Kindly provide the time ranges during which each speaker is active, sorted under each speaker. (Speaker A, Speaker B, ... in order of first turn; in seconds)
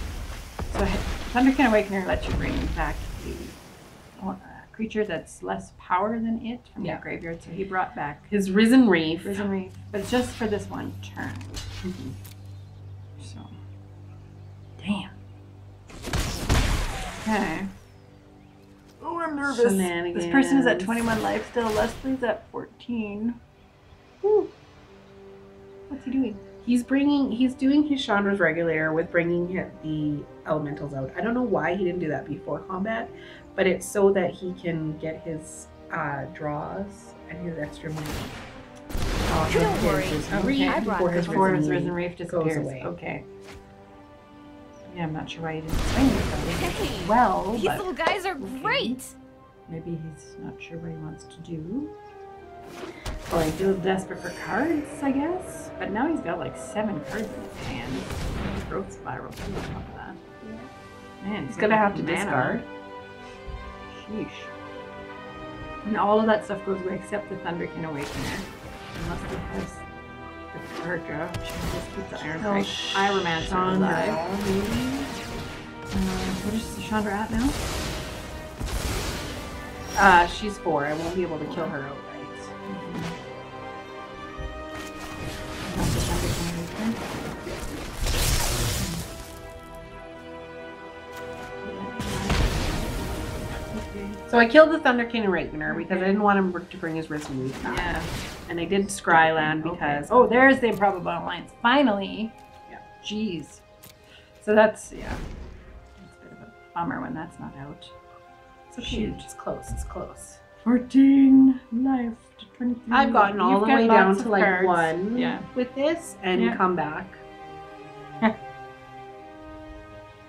Speaker A: 0.7-3.6, 4.2-8.3, 9.2-11.7, 13.2-13.6, 14.8-15.1, 17.2-17.7, 19.0-23.4, 25.9-26.4, 40.3-43.3, 44.9-47.9, 48.4-49.0, 49.7-51.9, 53.3-60.2, 61.2-62.6, 63.9-64.5, 65.8-69.8, 70.5-74.2, 75.9-77.6, 81.5-81.7, 82.7-83.1, 85.6-87.5, 88.8-89.0, 91.6-94.2, 95.7-96.2, 97.6-98.1, 99.1-102.3, 103.0-103.6, 104.4-105.2, 106.0-107.9, 108.8-109.3, 110.6-115.5, 116.3-116.6
Speaker B: 8.3-9.4, 11.8-12.1, 19.4-21.0, 26.6-38.4, 39.3-42.9, 61.5-62.6, 72.2-75.2, 79.9-82.5, 94.3-97.9, 98.5-100.5, 108.7-110.4, 112.9-117.2
Speaker C: 39.4-41.7, 46.6-49.1